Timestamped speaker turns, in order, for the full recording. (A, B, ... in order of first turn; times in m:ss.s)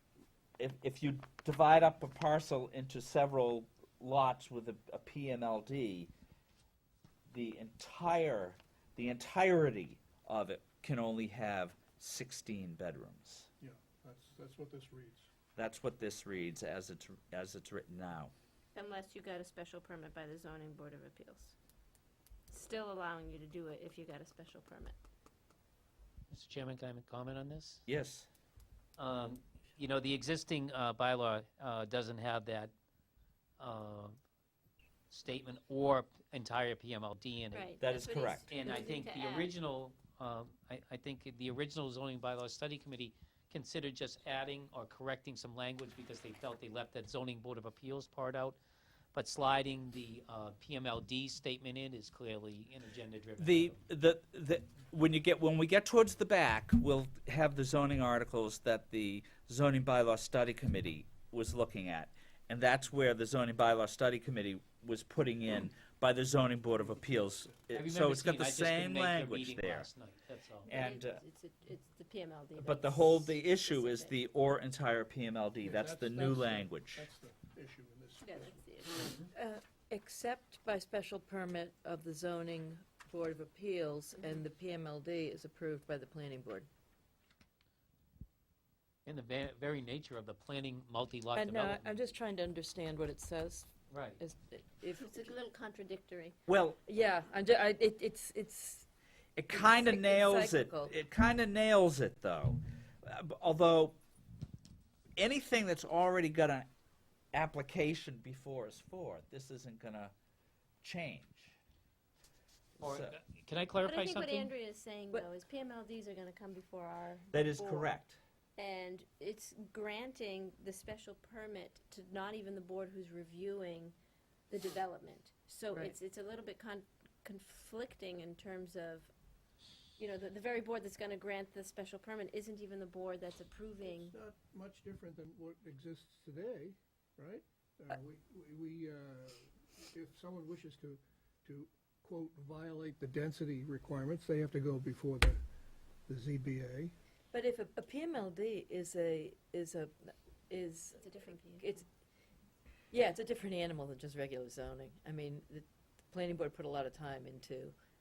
0:00.6-0:06.1 A
0:07.3-0:13.5 A
0:13.6-0:15.3 B
0:15.6-0:18.3 A
0:18.7-0:21.5 C
0:22.5-0:25.0 C
0:26.3-0:27.8 D
0:27.9-0:28.3 A
0:29.0-0:32.7 D
0:33.6-0:34.2 D
0:35.1-0:37.7 D
0:37.5-0:39.5 C
0:37.8-0:38.5 A
0:38.5-0:48.6 D
0:49.1-0:53.8 D
0:53.4-1:09.9 A
1:06.6-1:07.6 B
1:07.7-1:10.7 D
1:10.7-1:11.2 A
1:10.7-1:14.1 C
1:12.6-1:17.0 A
1:15.6-1:18.7 B
1:18.2-1:19.0 C
1:19.3-1:26.7 E
1:29.0-1:31.9 D
1:31.3-1:35.3 E
1:33.9-1:34.2 D
1:35.0-1:36.3 C
1:36.5-1:36.8 A
1:36.8-1:38.9 E
1:39.4-1:44.0 A
1:39.5-1:40.9 E
1:45.2-1:46.7 A
1:47.3-1:50.1 A
1:50.8-1:51.5 A
1:52.8-1:54.5 D
1:52.8-1:53.1 A
1:53.8-1:57.8 C
1:57.3-1:58.2 A
1:58.6-2:03.9 C
2:04.5-2:09.1 C
2:10.0-2:14.1 C
2:13.8-2:25.4 B
2:26.1-2:26.9 B
2:27.3-2:31.8 E
2:31.0-2:31.6 C
2:32.9-2:37.7 E